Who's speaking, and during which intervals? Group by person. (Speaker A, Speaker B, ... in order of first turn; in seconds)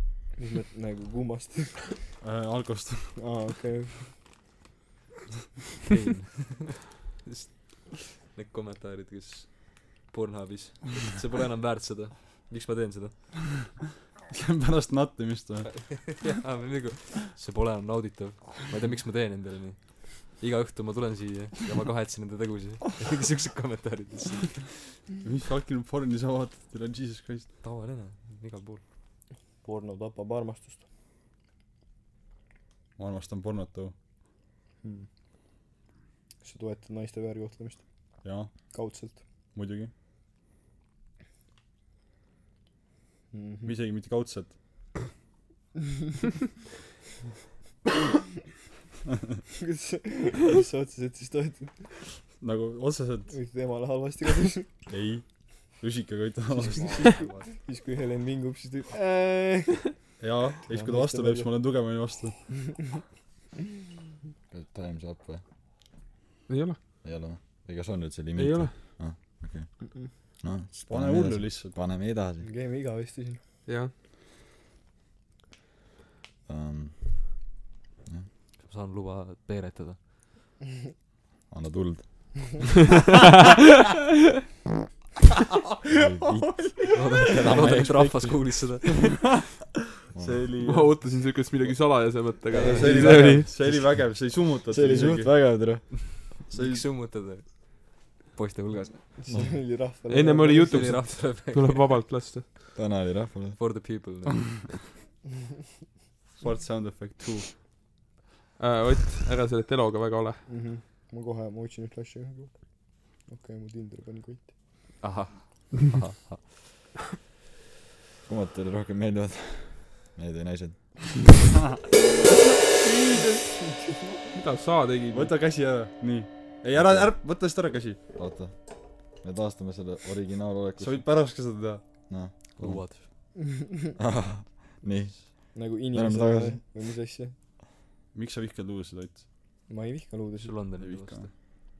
Speaker A: 0.4-2.1, 3.2-4.2, 29.6-30.8, 36.4-39.2, 43.3-43.7, 49.5-51.9, 53.3-54.7, 56.7-60.1, 60.7-61.5, 69.8-70.1, 72.4-73.4, 86.3-86.8, 92.5-93.5, 99.2-100.9, 110.5-114.5, 135.5-137.3, 139.7-140.5
Speaker B: 2.2-3.2, 14.3-16.1, 25.2-27.5, 33.0-33.9, 38.2-38.7, 39.5-39.9, 43.6-44.5, 52.4-53.3, 54.9-57.3, 60.2-62.9, 70.9-71.8, 90.2-91.0, 92.5-95.9, 96.5-96.8, 106.4-107.5, 125.1-128.0, 130.8-131.8, 138.1-139.2, 140.8-141.3
Speaker C: 5.8-13.2, 15.7-24.9, 27.6-28.8, 56.6-57.4, 78.6-80.0, 86.9-89.1, 96.5-99.2, 100.6-102.0, 103.5-104.5, 115.0-116.8, 132.5-133.1, 140.4-141.3
Speaker D: 64.5-65.4, 67.0-72.5, 76.5-77.5, 81.5-82.7, 85.9-88.6, 90.1-90.4, 94.7-96.3, 102.8-103.6, 118.3-121.3, 126.7-127.1, 128.1-131.2, 132.1-133.4, 134.0-136.6
Speaker E: 66.5-66.8, 68.3-68.7, 90.6-93.5, 100.1-102.5, 108.6-110.4, 124.3-125.3